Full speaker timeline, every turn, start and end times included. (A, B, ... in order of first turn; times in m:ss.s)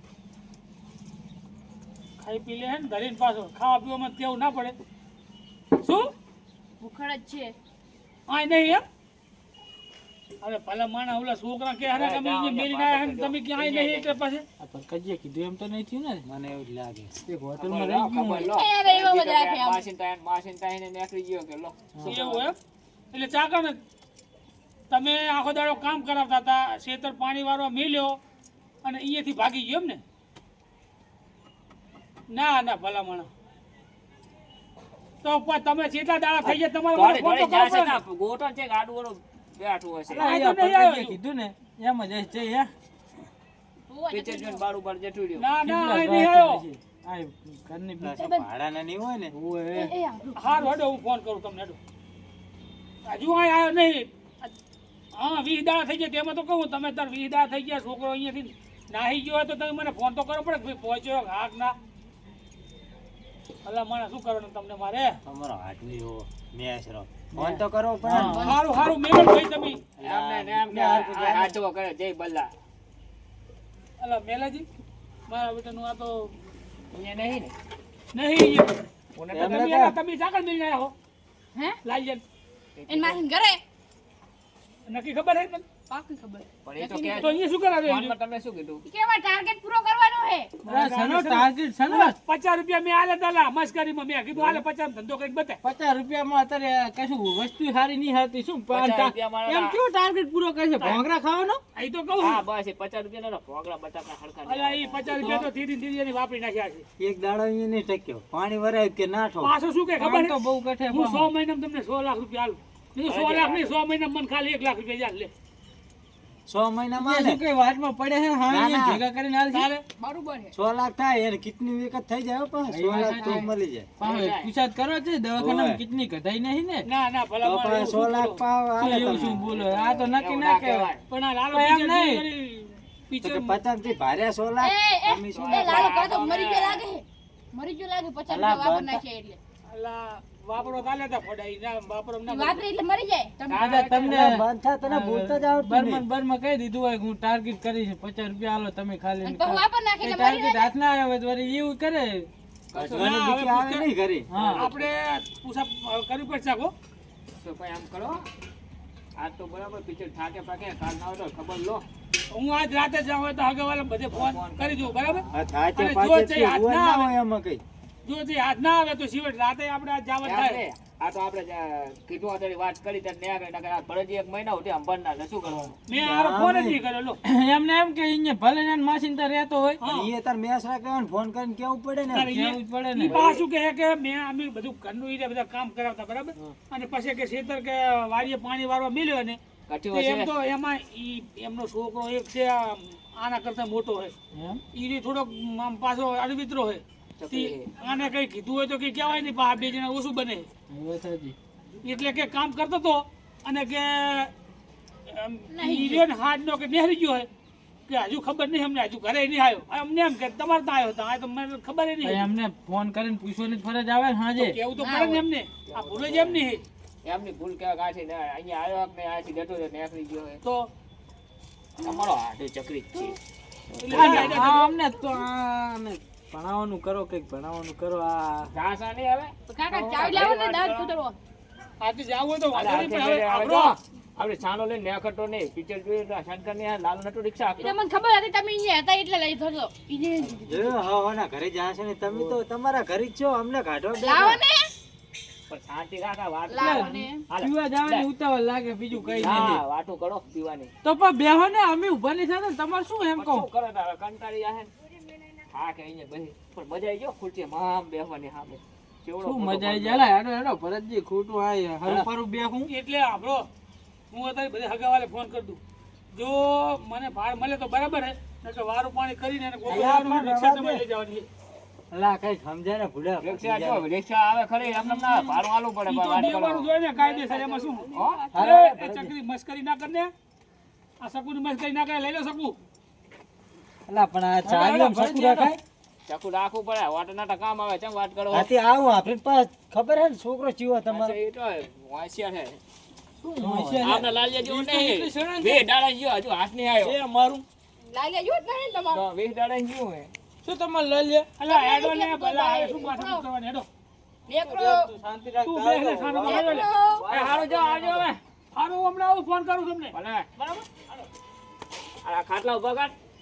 0:02.2-0:04.8 A
0:05.8-0:06.1 A
0:06.8-0:07.5 B
0:08.3-0:08.8 A
0:10.4-0:14.4 A
0:11.9-0:14.2 C
0:14.6-0:16.2 D
0:16.2-0:17.1 E
0:17.2-0:18.5 D
0:17.6-0:22.5 C
0:18.4-0:19.8 B
0:22.0-0:22.6 A
0:23.1-0:23.8 A
0:24.9-0:28.2 A
0:28.8-0:30.0 A
0:32.3-0:33.3 A
0:35.2-0:38.0 A
0:36.4-0:40.4 C
0:40.1-0:42.7 D
0:40.2-0:41.2 A
0:43.9-0:44.6 B
0:44.1-0:45.5 C
0:45.4-0:46.6 A
0:45.6-0:48.1 D
0:48.0-0:49.3 E
0:48.1-0:48.4 B
0:49.3-0:49.9 D
0:49.7-0:50.7 B
0:50.4-0:51.8 A
0:53.0-0:54.5 A
0:55.1-1:01.7 A
1:03.6-1:05.2 A
1:05.2-1:08.4 E
1:07.3-1:08.5 D
1:08.2-1:08.6 B
1:08.4-1:09.8 A
1:10.0-1:11.6 E
1:10.0-1:12.5 C
1:14.0-1:14.6 A
1:15.3-1:16.3 A
1:16.9-1:17.5 C
1:18.1-1:18.8 A
1:19.1-1:19.7 C
1:19.3-1:19.9 E
1:19.4-1:20.9 A
1:21.5-1:21.8 B
1:21.8-1:22.2 A
1:22.8-1:23.2 C
1:22.9-1:23.6 B
1:24.9-1:25.6 A
1:25.9-1:27.4 B
1:26.6-1:28.8 C
1:27.2-1:28.2 A
1:28.8-1:30.6 B
1:30.6-1:32.2 D
1:30.6-1:35.6 A
1:35.6-1:41.6 D
1:38.7-1:39.8 C
1:41.7-1:42.4 A
1:42.2-1:45.1 C
1:44.4-1:46.8 A
1:45.1-1:45.5 D
1:47.0-1:49.5 E
1:49.4-1:55.3 A
1:50.0-1:51.3 D
1:53.1-1:53.8 C
1:56.5-1:57.4 E
1:57.0-1:59.7 D
1:58.5-1:59.0 E
1:59.5-1:59.8 A
2:00.0-2:00.5 B
2:00.5-2:03.9 E
2:02.7-2:03.5 D
2:04.0-2:04.5 C
2:04.0-2:06.9 D
2:05.4-2:05.8 E
2:06.8-2:09.1 A
2:07.4-2:09.4 E
2:08.8-2:10.9 D
2:09.2-2:11.0 C
2:11.1-2:13.6 A
2:11.5-2:12.2 D
2:13.2-2:16.0 E
2:14.6-2:19.4 B
2:15.3-2:16.8 C
2:18.3-2:19.0 E
2:19.7-2:22.6 A
2:22.3-2:23.6 B
2:23.5-2:24.3 A
2:23.6-2:32.3 D
2:24.0-2:26.0 E
2:29.2-2:30.7 B
2:32.7-2:33.1 C
2:32.8-2:34.3 E
2:32.9-2:33.9 A
2:34.3-2:34.6 D
2:34.3-2:34.9 C
2:34.4-2:36.7 A
2:37.4-2:38.2 C
2:39.2-2:41.8 C
2:42.3-2:47.1 A
2:44.1-2:45.3 C
2:45.3-2:47.6 E
2:48.0-2:50.6 A
2:50.2-2:55.8 C
2:55.9-2:57.2 A
2:56.0-2:56.8 E
2:57.2-2:59.8 D
2:59.8-3:00.1 A
2:59.8-3:02.3 E
3:02.1-3:09.4 A
3:02.3-3:03.2 D
3:03.0-3:03.4 C
3:09.7-3:10.3 C
3:09.9-3:14.1 A
3:14.3-3:14.6 D
3:14.7-3:20.5 A
3:17.2-3:17.8 C
3:20.7-3:21.3 D
3:21.8-3:24.3 A
3:25.1-3:27.3 A
3:25.5-3:26.0 B
3:27.9-3:32.3 A
3:32.0-3:34.6 D
3:34.4-3:36.6 A
3:34.8-3:35.2 B
3:35.7-3:36.4 C
3:37.0-3:40.4 C
3:40.4-3:40.7 A
3:41.8-3:43.2 C
3:43.7-3:44.4 C
3:43.8-3:44.7 A
3:43.9-3:48.5 D
3:48.5-3:50.8 C
3:49.5-3:51.2 B
3:51.8-3:53.7 A
3:52.5-3:57.8 C
3:57.6-4:00.8 B
4:00.3-4:04.4 E
4:04.0-4:04.7 B
4:05.5-4:08.1 C
4:06.5-4:07.2 B
4:06.6-4:09.6 D
4:09.0-4:10.7 C
4:10.8-4:13.4 D
4:13.1-4:14.7 C
4:15.5-4:20.1 C
4:19.2-4:22.7 D
4:22.7-4:23.5 A
4:24.1-4:25.6 A
4:26.1-4:31.3 A
4:29.6-4:30.8 E
4:31.9-4:33.8 E
4:33.2-4:36.7 C
4:34.9-4:35.3 A
4:35.9-4:40.1 A
4:36.9-4:38.3 B
4:37.9-4:38.3 C
4:38.3-4:39.1 E
4:41.0-4:42.6 A
4:43.9-4:45.6 E
4:44.4-4:45.6 D
4:46.0-4:48.5 C
4:48.3-4:51.2 E
4:50.8-4:52.6 C
4:53.2-4:55.6 D
4:53.4-4:54.0 E
4:53.8-4:57.0 C
4:56.8-4:57.4 D
4:57.8-4:59.0 B
4:58.9-5:00.1 C
5:00.4-5:01.3 D
5:01.4-5:03.7 A
5:01.4-5:03.2 B
5:04.3-5:04.9 B
5:04.4-5:08.1 D
5:05.4-5:06.7 A
5:06.2-5:07.2 B
5:07.1-5:08.2 C
5:08.5-5:10.6 A
5:09.9-5:10.3 C
5:12.0-5:12.9 C